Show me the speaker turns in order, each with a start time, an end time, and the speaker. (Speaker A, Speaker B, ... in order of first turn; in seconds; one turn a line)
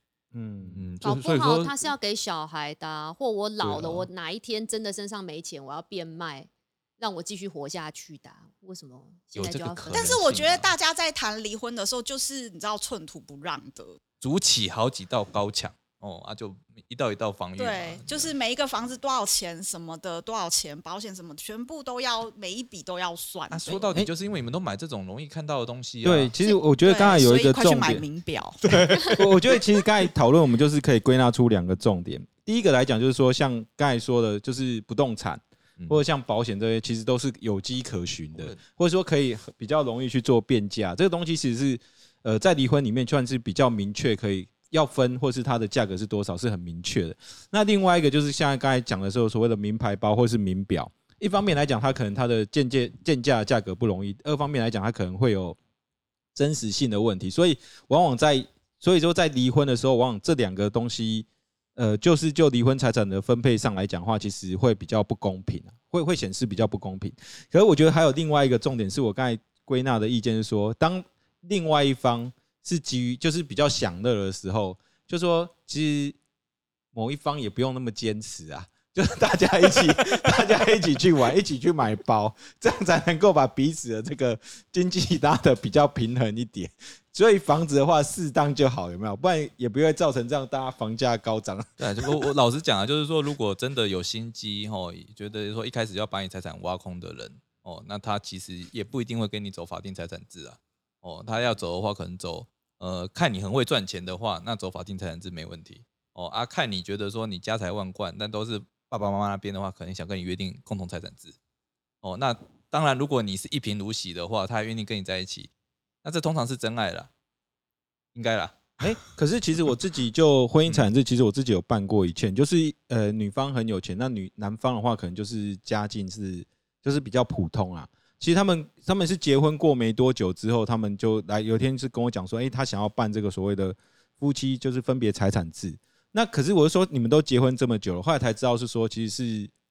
Speaker A: 0.3-0.9
Speaker B: 0.7-1.9
Speaker C: 1.0-10.2
Speaker B: 3.7-3.9
Speaker A: 3.7-4.0
Speaker B: 9.3-10.7
Speaker D: 9.9-14.0
Speaker B: 14.2-18.3
Speaker D: 17.6-24.0
Speaker B: 23.5-26.3
Speaker A: 26.0-28.0
Speaker D: 26.4-28.6
Speaker B: 28.6-29.6
Speaker A: 29.1-55.6
Speaker B: 38.3-38.6
Speaker A: 56.4-76.2
Speaker A: 76.9-91.8
Speaker B: 91.8-111.4
Speaker B: 112.0-115.5
Speaker B: 116.0-117.1
Speaker B: 118.2-118.8
Speaker A: 118.8-139.5